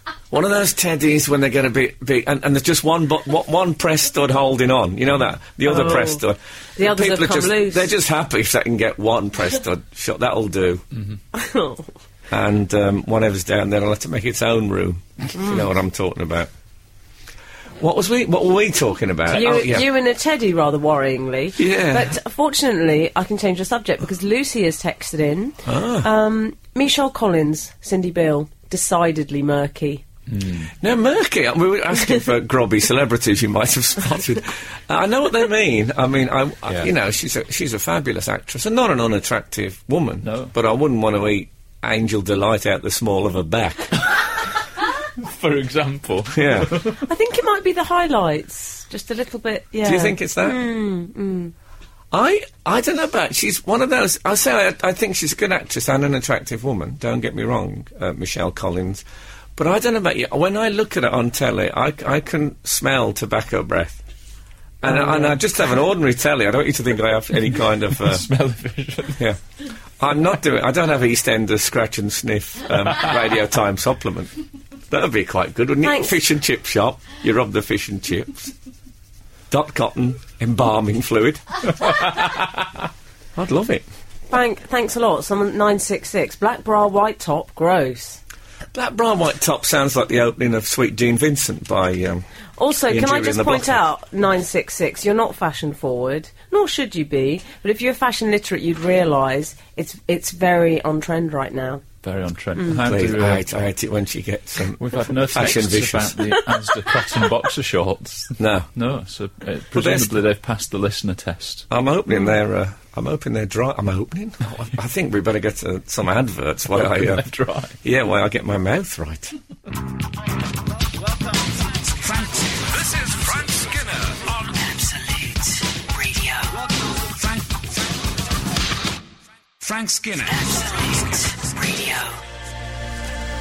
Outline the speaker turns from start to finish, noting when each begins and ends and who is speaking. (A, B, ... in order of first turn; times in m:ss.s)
0:00.3-0:10.8 A
0:05.6-0:06.2 B
0:06.8-0:07.9 B
0:11.3-0:11.9 B
0:12.3-0:16.5 A
0:15.3-0:15.6 B
0:17.8-0:19.9 A
0:19.3-0:30.0 B
0:21.6-0:22.1 A
0:25.6-0:26.1 A
0:30.3-0:30.7 C
0:30.8-0:44.0 A
0:40.2-0:40.5 C
0:45.2-0:47.0 C
0:46.3-0:46.8 A
0:46.9-0:51.5 B
0:49.8-0:50.6 A
0:52.1-0:59.0 A
0:59.6-1:04.0 A
1:04.8-1:08.3 A
1:04.8-1:05.4 B
1:08.0-1:09.2 C
1:10.0-1:14.3 A
1:14.9-1:18.5 A
1:15.8-1:16.1 B
1:19.5-1:21.8 A
1:23.3-1:23.8 A
1:24.3-1:28.2 B
1:28.7-1:32.2 A
1:32.6-1:41.8 B
1:32.9-1:33.8 A
1:42.0-1:43.4 C
1:42.7-1:46.2 A
1:44.8-1:51.7 C
1:48.4-1:48.7 A
1:49.7-1:50.2 A
1:51.7-1:57.3 A
1:56.7-1:57.7 C
1:57.8-1:59.3 A
2:01.8-2:04.5 D
2:04.5-2:06.6 E
2:07.0-2:07.8 D
2:09.6-2:10.5 D
2:10.2-2:12.2 E